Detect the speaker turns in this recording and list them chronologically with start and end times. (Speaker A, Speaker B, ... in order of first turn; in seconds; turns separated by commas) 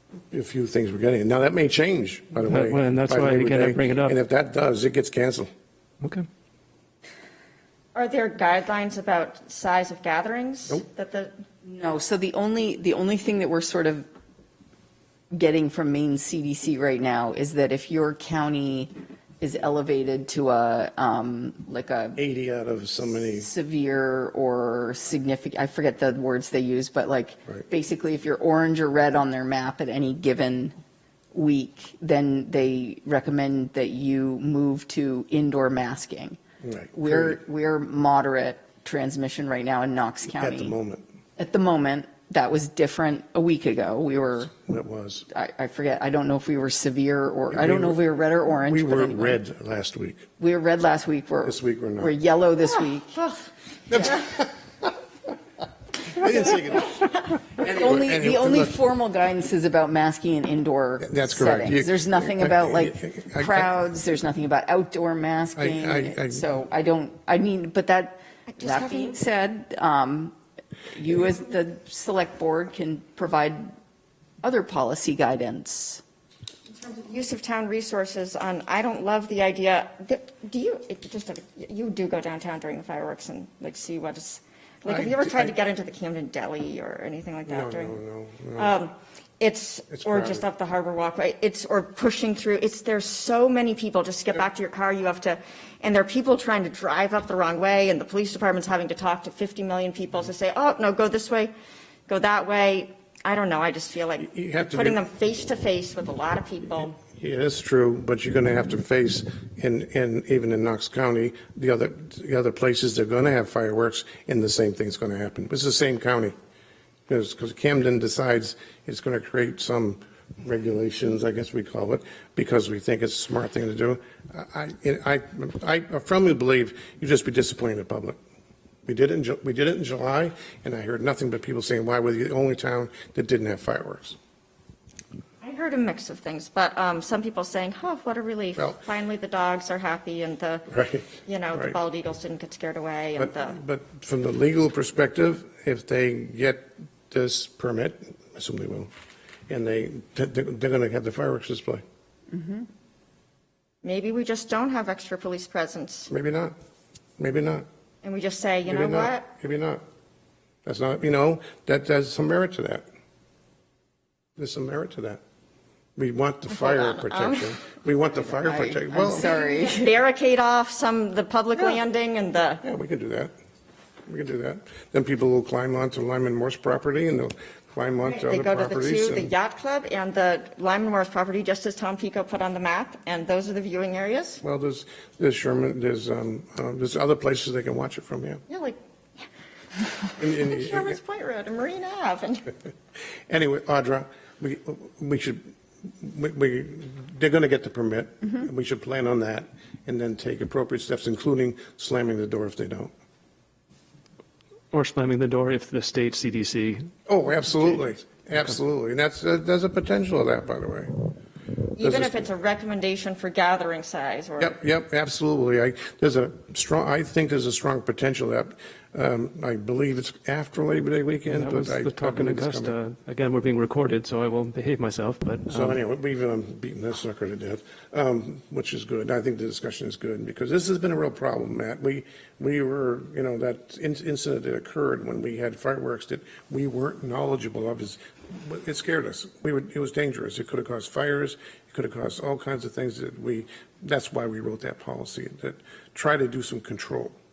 Speaker A: 0.3-5.5, Speaker B: 2.4-4.2, Speaker C: 8.0-11.3, Speaker D: 11.6-14.1, Speaker D: 15.3-22.2, Speaker A: 22.2-23.5, Speaker D: 23.3-30.8, Speaker D: 31.3-36.4, Speaker A: 36.6-37.4, Speaker D: 37.0-40.8, Speaker A: 40.3-41.0, Speaker D: 41.4-44.5, Speaker A: 44.5-45.3, Speaker D: 45.3-49.4, Speaker A: 47.5-50.3, Speaker D: 50.4-53.3, Speaker A: 51.5-52.1, Speaker A: 53.9-54.6, Speaker A: 56.1-58.8, Speaker D: 57.6-70.3, Speaker A: 61.0-63.7, Speaker A: 65.6-66.5, Speaker C: 68.5-69.2, Speaker D: 70.9-73.7, Speaker D: 74.4-76.0, Speaker C: 76.7-88.0, Speaker A: 84.9-85.5, Speaker A: 87.5-88.7, Speaker C: 88.6-101.5, Speaker A: 89.9-90.4, Speaker C: 102.1-107.0, Speaker A: 104.2-105.0, Speaker A: 106.9-116.3, Speaker A: 117.1-128.2, Speaker A: 128.9-134.2, Speaker C: 135.4-143.6, Speaker A: 140.7-141.8, Speaker A: 143.2-148.9, Speaker A: 149.5-151.8, Speaker D: 152.3-152.7, Speaker C: 153.8-156.1, Speaker A: 156.1-156.6, Speaker A: 157.2-157.7, Speaker C: 158.0-159.3, Speaker A: 158.7-159.8, Speaker A: 160.7-162.8, Speaker A: 164.4-165.2, Speaker A: 166.0-169.3, Speaker C: 166.5-167.5, Speaker D: 168.2-169.9, Speaker C: 169.2-172.6, Speaker A: 172.6-173.3, Speaker A: 174.1-179.3, Speaker C: 178.1-184.4, Speaker A: 184.4-188.4, Speaker C: 188.5-189.2, Speaker C: 190.1-192.5, Speaker A: 190.2-191.0, Speaker A: 193.3-202.9, Speaker B: 204.7-206.9, Speaker A: 207.1-210.9, Speaker C: 211.8-214.6, Speaker A: 211.8-212.3, Speaker A: 214.4-222.8, Speaker B: 221.3-225.8, Speaker A: 225.5-247.2